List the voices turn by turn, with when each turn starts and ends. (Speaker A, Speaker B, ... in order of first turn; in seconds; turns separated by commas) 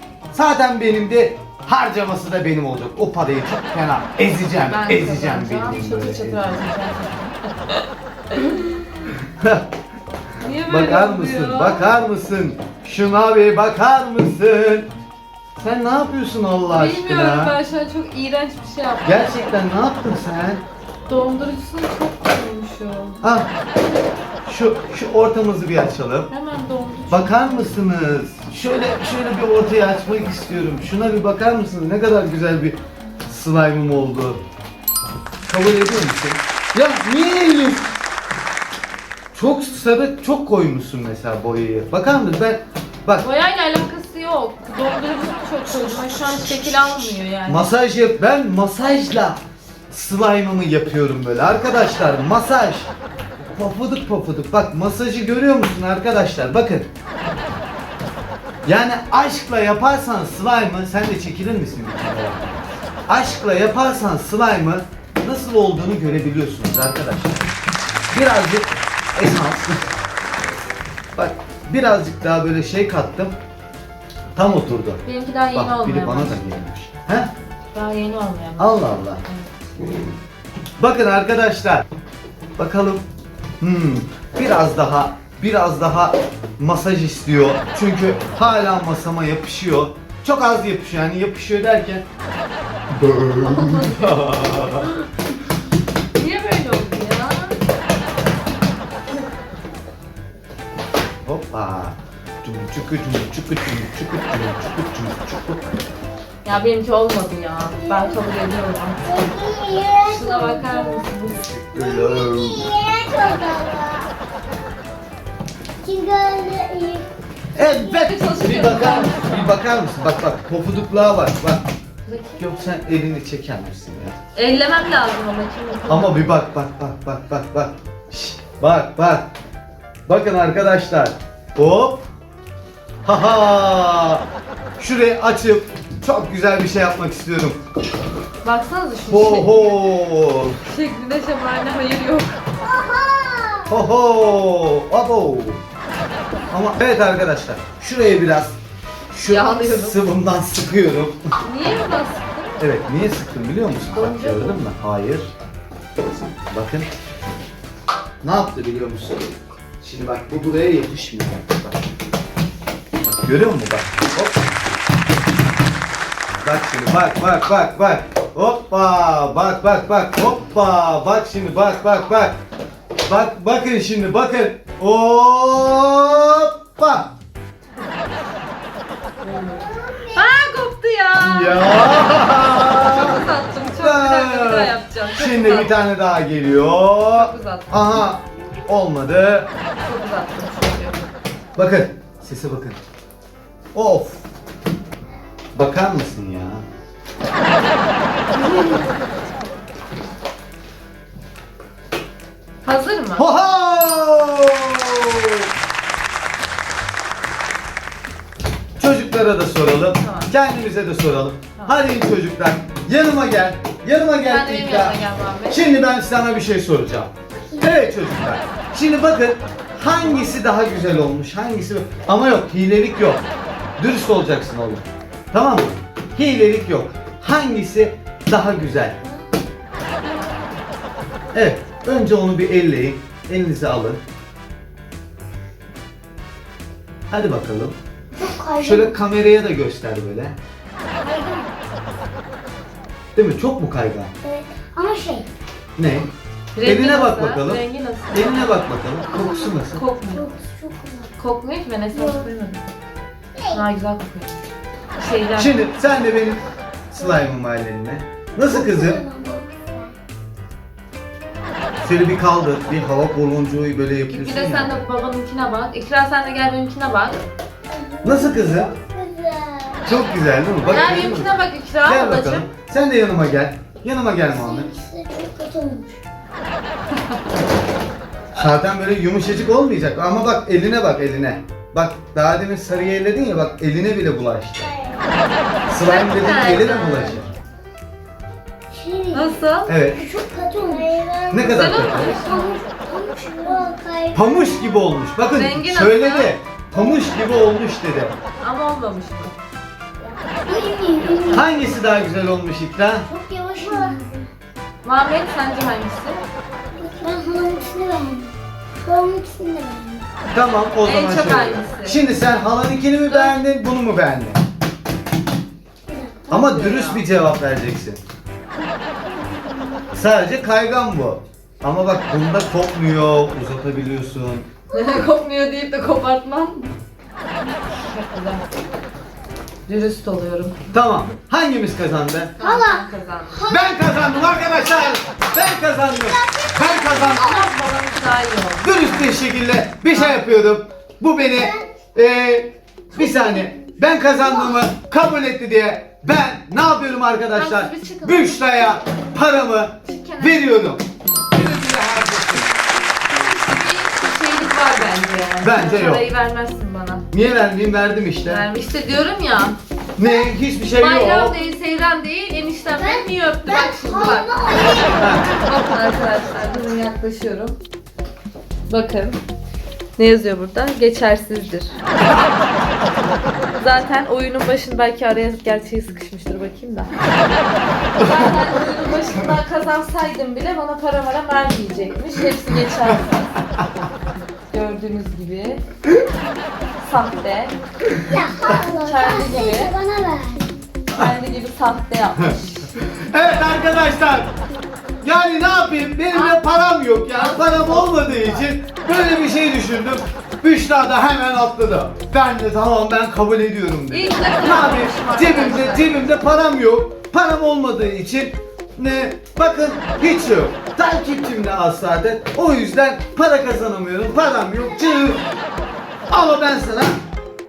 Speaker A: 0.3-6.6, Speaker B: 4.6-9.0, Speaker A: 9.1-9.6, Speaker B: 10.4-11.9, Speaker A: 10.6-14.9, Speaker A: 15.6-17.6, Speaker B: 16.7-19.3, Speaker A: 19.0-20.6, Speaker B: 21.1-23.2, Speaker A: 23.2-23.5, Speaker A: 24.5-26.3, Speaker B: 26.3-27.8, Speaker A: 27.1-34.4, Speaker A: 35.5-37.9, Speaker A: 39.3-43.3, Speaker B: 43.2-47.7, Speaker A: 45.6-52.9, Speaker A: 53.5-56.9, Speaker A: 58.6-67.5, Speaker A: 68.1-69.8, Speaker A: 71.2-73.3, Speaker A: 74.3-77.3, Speaker B: 75.0-76.5, Speaker B: 77.7-79.8, Speaker A: 78.6-79.2, Speaker A: 80.8-81.8, Speaker A: 82.6-83.0, Speaker A: 83.6-92.0, Speaker A: 92.9-94.9, Speaker B: 93.4-94.3, Speaker B: 96.2-97.6, Speaker A: 101.2-105.7, Speaker B: 106.5-109.0, Speaker C: 107.8-108.3, Speaker C: 109.0-111.1, Speaker B: 110.0-111.5, Speaker A: 111.5-112.7, Speaker C: 111.7-114.1, Speaker C: 115.8-117.1, Speaker A: 117.5-121.7, Speaker C: 117.6-118.1, Speaker B: 117.9-119.6, Speaker B: 122.0-122.8, Speaker A: 122.4-124.2, Speaker B: 124.3-126.3, Speaker A: 125.9-129.3, Speaker A: 130.1-132.0, Speaker A: 133.1-134.2, Speaker A: 134.8-137.6, Speaker B: 138.4-139.9, Speaker A: 139.1-140.6, Speaker B: 140.6-142.4, Speaker C: 142.6-143.7, Speaker A: 143.7-145.6, Speaker A: 146.5-148.6, Speaker A: 149.1-151.2, Speaker B: 149.2-150.1, Speaker B: 151.4-152.6, Speaker A: 152.6-155.3, Speaker B: 153.9-154.6, Speaker A: 156.5-156.9, Speaker A: 158.2-161.6, Speaker A: 163.0-164.6, Speaker A: 166.4-172.4, Speaker A: 173.1-177.1, Speaker B: 179.2-182.0, Speaker C: 179.2-180.4, Speaker A: 181.2-183.2, Speaker B: 182.8-185.8, Speaker A: 183.7-189.5, Speaker B: 187.1-187.8, Speaker B: 189.8-191.0, Speaker A: 191.6-192.8, Speaker A: 193.7-194.2, Speaker A: 195.6-196.6, Speaker B: 202.6-203.3, Speaker A: 203.2-205.5, Speaker A: 208.8-223.2, Speaker B: 209.9-210.3, Speaker B: 214.2-215.7, Speaker C: 217.5-217.8, Speaker B: 219.9-220.2, Speaker A: 223.8-229.0, Speaker C: 230.0-230.4, Speaker A: 231.3-234.0, Speaker A: 237.1-237.8, Speaker C: 238.1-239.0, Speaker A: 238.6-240.4, Speaker C: 241.0-241.5, Speaker A: 243.1-244.1, Speaker C: 244.2-245.3, Speaker A: 245.8-246.1, Speaker B: 246.5-248.5, Speaker A: 246.6-249.8, Speaker C: 249.1-251.1, Speaker B: 249.7-250.3, Speaker B: 251.2-252.6, Speaker C: 251.9-252.3, Speaker C: 253.4-253.6, Speaker B: 253.5-254.4, Speaker B: 255.0-255.6, Speaker A: 255.3-259.0, Speaker C: 257.0-257.3, Speaker C: 258.4-259.9, Speaker A: 261.8-264.8, Speaker B: 264.1-267.2, Speaker C: 267.7-270.9, Speaker A: 268.0-268.7, Speaker A: 269.9-274.7, Speaker B: 270.6-272.5, Speaker C: 274.2-276.0, Speaker A: 278.3-284.7, Speaker C: 284.7-285.0, Speaker A: 285.7-287.3, Speaker B: 285.8-287.2, Speaker C: 288.7-294.8, Speaker B: 289.1-289.7, Speaker A: 289.6-290.0, Speaker A: 291.3-292.2, Speaker B: 291.4-292.6, Speaker A: 294.1-298.1, Speaker B: 295.3-296.4, Speaker C: 296.8-297.4, Speaker B: 298.4-299.4, Speaker C: 300.0-301.5, Speaker B: 300.6-301.5, Speaker A: 301.3-303.1, Speaker C: 303.1-304.3, Speaker B: 304.8-306.2, Speaker C: 306.8-310.1, Speaker A: 310.3-314.4, Speaker B: 310.8-312.0, Speaker B: 313.1-313.4, Speaker C: 315.9-316.2, Speaker B: 316.3-317.0, Speaker A: 316.3-318.0, Speaker C: 318.9-319.9, Speaker A: 319.9-324.5, Speaker B: 324.7-326.7, Speaker B: 327.8-328.4, Speaker B: 329.7-330.7, Speaker A: 330.7-332.3, Speaker B: 332.4-333.5, Speaker C: 332.4-335.0, Speaker A: 333.5-337.3, Speaker C: 335.7-337.5, Speaker B: 336.9-339.2, Speaker A: 338.6-352.5, Speaker B: 339.9-340.3, Speaker C: 341.3-341.7, Speaker C: 343.0-344.6, Speaker B: 347.3-348.8, Speaker B: 349.9-350.5, Speaker B: 353.1-357.1, Speaker A: 355.4-356.1, Speaker A: 357.1-358.5, Speaker B: 358.2-359.6, Speaker A: 360.0-361.4, Speaker B: 360.8-364.4, Speaker C: 362.7-365.5, Speaker A: 365.0-365.3, Speaker B: 365.2-367.6, Speaker B: 368.7-369.2, Speaker B: 370.0-371.8, Speaker B: 373.6-376.9, Speaker B: 378.0-383.4, Speaker B: 384.5-385.6, Speaker B: 386.8-387.6, Speaker C: 388.1-390.5, Speaker B: 388.6-389.7, Speaker B: 390.9-392.8, Speaker A: 392.8-394.3, Speaker A: 395.0-415.2, Speaker B: 396.1-396.4, Speaker B: 397.1-398.5, Speaker B: 403.9-406.1, Speaker A: 416.1-417.0